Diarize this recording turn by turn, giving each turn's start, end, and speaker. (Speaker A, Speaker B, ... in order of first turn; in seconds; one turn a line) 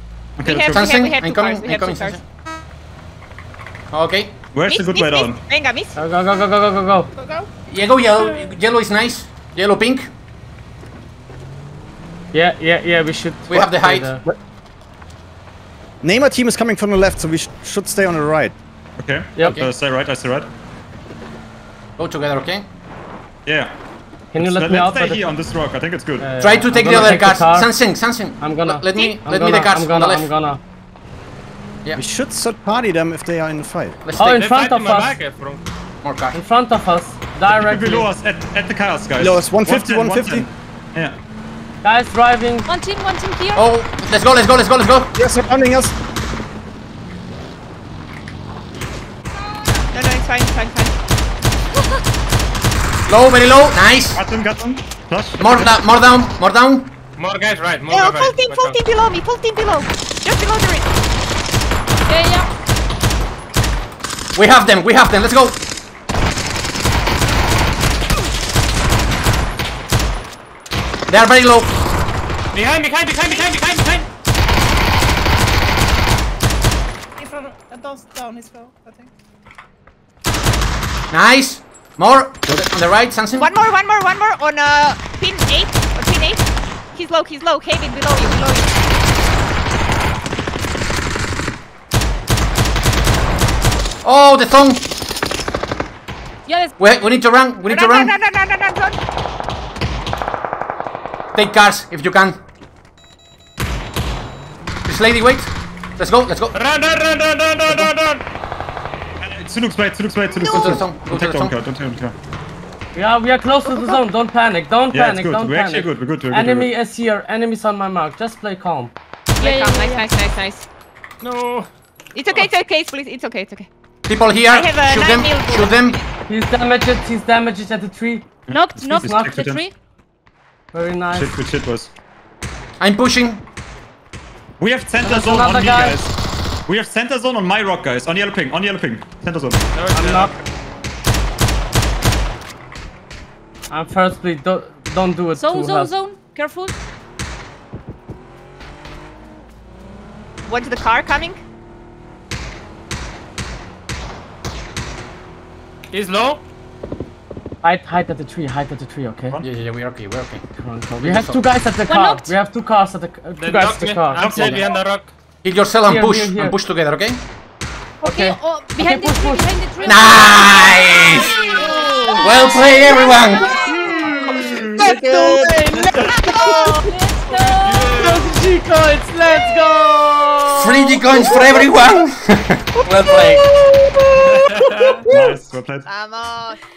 Speaker A: 0.4-1.0
Speaker B: 0.4-2.2
Speaker C: 0.6-2.2
Speaker C: 3.9-4.4
Speaker A: 4.5-5.4
Speaker B: 4.7-6.0
Speaker D: 6.0-7.1
Speaker E: 7.2-7.5
Speaker C: 7.7-10.1
Speaker F: 8.2-8.5
Speaker D: 12.3-14.3
Speaker C: 13.5-14.2
Speaker G: 16.0-18.6
Speaker A: 19.0-20.5
Speaker C: 19.4-19.7
Speaker C: 22.0-22.7
Speaker A: 23.5-23.8
Speaker D: 24.3-25.4
Speaker A: 24.4-26.3
Speaker D: 26.2-27.7
Speaker C: 26.4-30.3
Speaker D: 28.4-30.6
Speaker G: 31.9-34.0
Speaker C: 34.0-34.4
Speaker D: 34.2-35.2
Speaker F: 34.2-35.6
Speaker C: 36.0-36.4
Speaker D: 36.3-38.1
Speaker A: 37.5-41.2
Speaker G: 39.2-40.5
Speaker D: 41.8-42.7
Speaker H: 42.7-43.7
Speaker C: 43.5-45.1
Speaker G: 45.2-45.9
Speaker B: 49.9-51.0
Speaker C: 53.1-54.2
Speaker A: 54.1-55.6
Speaker C: 55.4-56.9
Speaker F: 57.2-58.8
Speaker B: 57.9-60.9
Speaker H: 62.1-62.5
Speaker C: 64.3-65.6
Speaker C: 71.1-71.7
Speaker F: 72.5-74.1
Speaker E: 77.2-79.1
Speaker C: 81.1-83.5
Speaker B: 83.4-88.8
Speaker C: 94.0-94.9
Speaker H: 96.5-96.8
Speaker C: 96.8-98.2
Speaker B: 97.7-99.0
Speaker C: 101.3-102.4
Speaker C: 104.9-106.5
Speaker F: 106.5-108.2
Speaker C: 107.6-107.9
Speaker A: 109.2-112.2
Speaker C: 110.5-111.6
Speaker D: 112.9-118.9
Speaker A: 114.9-116.7
Speaker B: 119.4-120.7
Speaker H: 119.4-120.1
Speaker F: 121.2-121.7
Speaker B: 122.1-123.7
Speaker C: 124.1-126.0
Speaker B: 124.5-126.0
Speaker D: 126.3-128.3
Speaker A: 128.5-129.7
Speaker H: 128.5-129.7
Speaker D: 128.9-129.4
Speaker D: 130.7-131.3
Speaker A: 131.1-131.9
Speaker C: 132.8-133.4
Speaker A: 134.6-136.2
Speaker D: 135.0-136.0
Speaker A: 136.7-139.6
Speaker F: 139.7-140.4
Speaker D: 139.9-140.3
Speaker D: 143.7-145.9
Speaker H: 145.3-146.7
Speaker B: 150.5-151.4
Speaker F: 155.9-156.4
Speaker D: 157.6-159.4
Speaker C: 159.4-160.4
Speaker D: 160.5-164.3
Speaker C: 161.0-161.4
Speaker H: 161.9-162.3
Speaker F: 163.4-165.1
Speaker A: 164.2-164.6
Speaker C: 165.4-167.2
Speaker D: 165.8-166.6
Speaker H: 168.0-170.8
Speaker D: 168.0-169.5
Speaker C: 169.8-171.4
Speaker H: 171.6-173.7
Speaker D: 171.6-171.9
Speaker C: 172.1-173.6
Speaker D: 173.8-176.1
Speaker H: 176.6-178.1
Speaker F: 177.3-178.4
Speaker D: 177.9-180.8
Speaker C: 180.6-183.5
Speaker F: 184.2-185.0
Speaker A: 185.1-185.9
Speaker B: 185.9-186.6